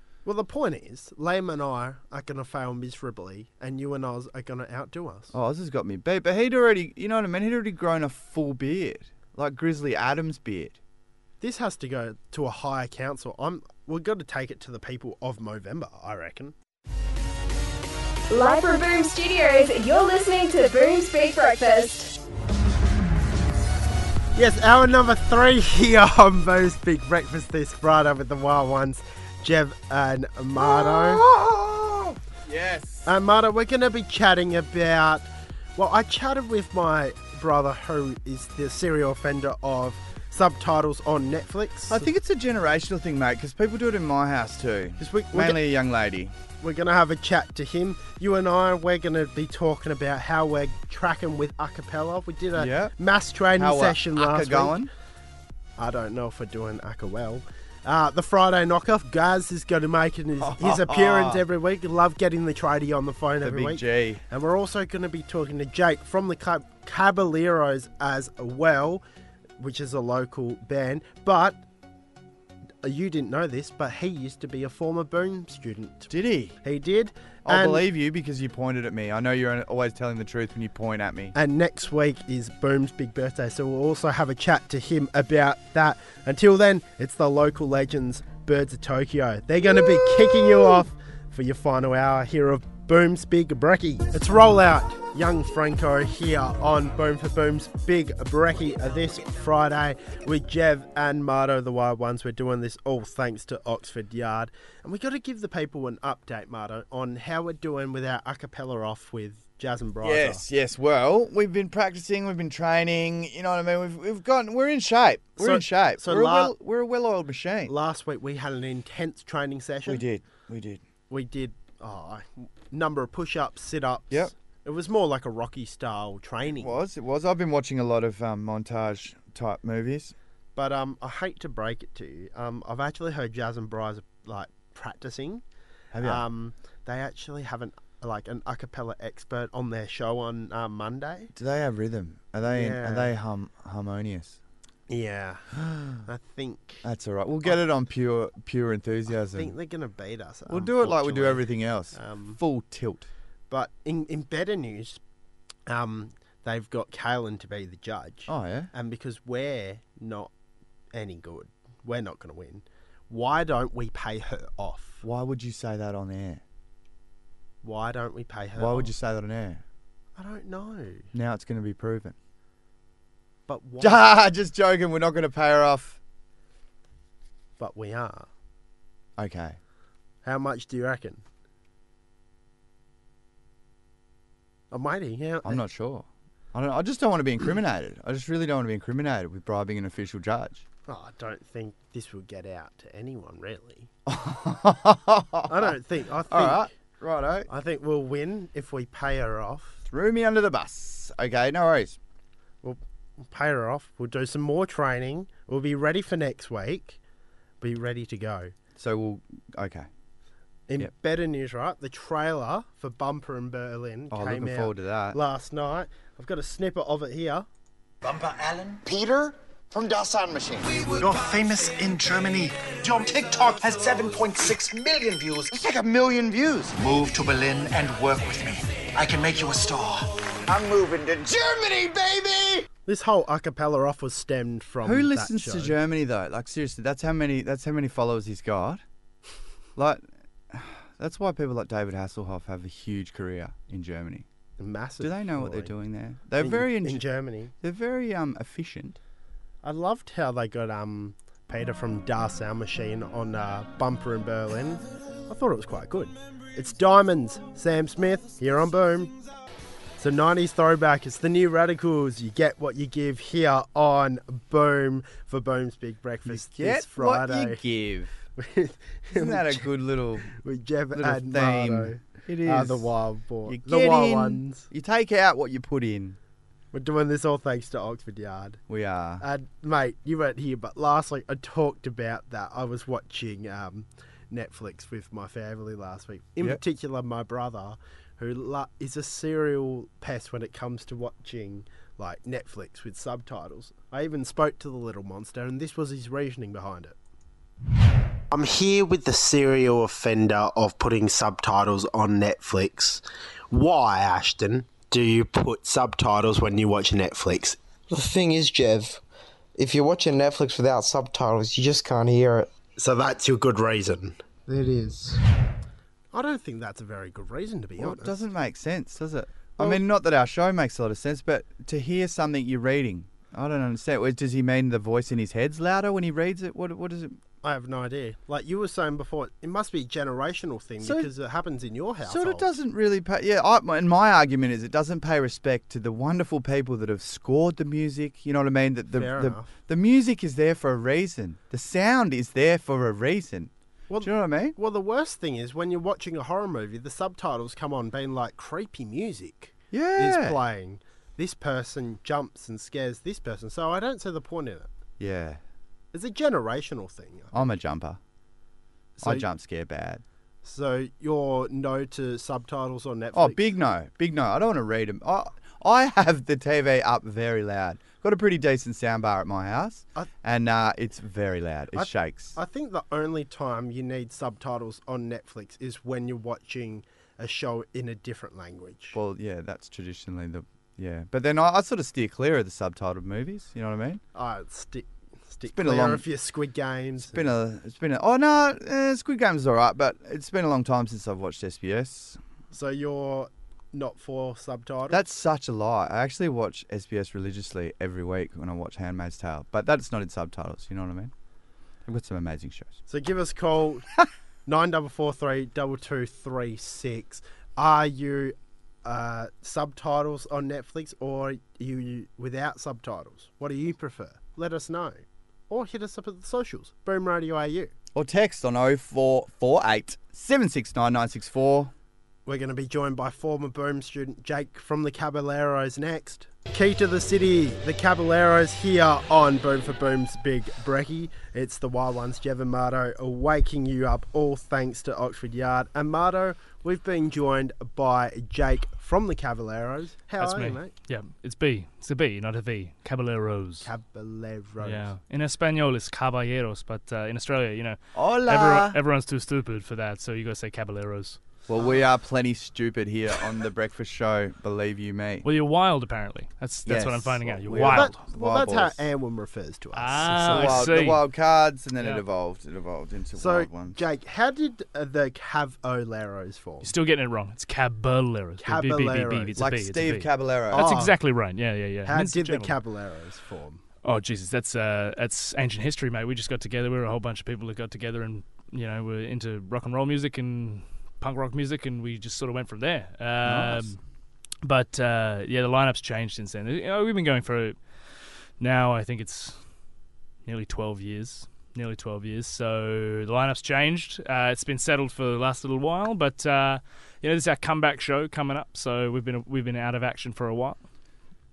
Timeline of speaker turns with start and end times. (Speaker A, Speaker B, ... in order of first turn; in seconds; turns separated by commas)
Speaker A: 0.2-5.3, Speaker B: 5.3-10.8, Speaker A: 11.4-16.5, Speaker C: 18.3-22.1, Speaker A: 24.4-31.2, Speaker B: 30.6-33.1, Speaker A: 33.1-42.1, Speaker B: 41.9-46.3, Speaker A: 45.0-45.6, Speaker A: 46.6-54.9, Speaker B: 52.6-52.9, Speaker B: 53.5-54.9, Speaker A: 55.8-69.0, Speaker B: 60.4-61.4, Speaker B: 63.4-64.2, Speaker A: 69.6-71.6, Speaker A: 72.8-76.1, Speaker B: 76.1-76.6, Speaker A: 76.6-77.9, Speaker B: 77.5-81.3, Speaker A: 81.3-110.4, Speaker B: 110.0-117.7, Speaker A: 115.4-116.5, Speaker A: 117.7-120.0, Speaker B: 119.8-120.8, Speaker A: 121.1-126.8, Speaker B: 126.6-130.1, Speaker A: 130.6-135.4, Speaker B: 135.9-136.2, Speaker A: 136.0-141.3, Speaker B: 141.3-144.4, Speaker A: 142.4-143.1, Speaker A: 144.9-146.8, Speaker B: 145.6-146.0, Speaker B: 146.8-149.5, Speaker A: 149.3-152.4, Speaker B: 150.5-153.1, Speaker A: 153.5-155.0, Speaker A: 155.7-160.3, Speaker B: 158.3-158.7, Speaker A: 160.9-165.0, Speaker B: 165.0-166.4, Speaker A: 167.6-168.9, Speaker B: 168.6-169.6, Speaker A: 170.2-171.1, Speaker B: 171.1-172.2, Speaker A: 173.5-174.1, Speaker B: 173.8-176.0, Speaker A: 177.6-178.3, Speaker B: 179.2-179.6, Speaker A: 180.2-181.2, Speaker A: 184.7-185.6, Speaker B: 185.4-190.6, Speaker A: 190.9-193.9, Speaker B: 194.1-195.7, Speaker A: 195.5-196.7, Speaker B: 196.3-197.5, Speaker A: 197.5-199.8, Speaker B: 199.9-202.0, Speaker A: 202.6-207.0, Speaker A: 207.6-208.5, Speaker B: 208.8-209.9, Speaker A: 210.7-217.5, Speaker B: 214.1-215.2, Speaker D: 218.0-232.7, Speaker A: 232.9-235.8, Speaker B: 234.8-238.8, Speaker B: 239.8-244.3, Speaker A: 244.6-245.7, Speaker B: 245.0-247.0, Speaker A: 246.4-247.5, Speaker B: 247.6-249.0, Speaker A: 249.6-259.2, Speaker A: 260.0-267.6, Speaker B: 266.3-268.1, Speaker A: 268.4-269.7, Speaker B: 269.1-270.3, Speaker A: 270.3-274.7, Speaker B: 270.9-272.9, Speaker B: 273.5-276.2, Speaker A: 276.7-278.6, Speaker B: 278.7-279.2, Speaker A: 279.2-297.0, Speaker A: 298.3-307.6, Speaker E: 307.9-309.0, Speaker E: 309.6-312.5, Speaker A: 312.8-314.2, Speaker E: 314.5-314.9, Speaker A: 316.1-318.2, Speaker B: 317.8-327.2, Speaker A: 327.4-332.5, Speaker B: 330.8-331.1, Speaker B: 332.1-343.5, Speaker A: 338.9-339.5, Speaker A: 343.9-354.7, Speaker B: 344.0-344.6, Speaker B: 349.7-350.4, Speaker B: 355.0-355.4, Speaker A: 355.9-357.5, Speaker B: 357.3-358.0, Speaker A: 359.0-359.3, Speaker B: 359.0-360.0, Speaker A: 360.4-363.4, Speaker B: 363.1-372.4, Speaker A: 371.7-379.0, Speaker B: 378.9-384.0, Speaker A: 384.1-387.3, Speaker B: 385.5-386.0, Speaker B: 387.1-392.2, Speaker A: 392.5-395.0, Speaker B: 394.9-401.1, Speaker B: 401.9-402.8, Speaker A: 402.9-403.9, Speaker A: 404.5-417.7, Speaker B: 417.9-421.7, Speaker A: 422.3-440.7, Speaker F: 440.2-443.7, Speaker A: 443.6-444.9, Speaker F: 444.6-451.2, Speaker B: 447.9-448.8, Speaker B: 451.5-455.3, Speaker F: 455.2-458.1, Speaker B: 456.7-458.8, Speaker A: 457.5-460.8, Speaker F: 459.8-461.0, Speaker B: 460.2-463.8, Speaker A: 463.2-466.7, Speaker F: 466.6-472.6, Speaker A: 468.4-469.4, Speaker B: 469.4-470.7, Speaker A: 470.5-471.0, Speaker A: 471.9-473.6, Speaker F: 473.8-483.8, Speaker B: 483.2-483.8, Speaker F: 484.4-487.6, Speaker F: 488.4-489.4, Speaker F: 490.2-500.6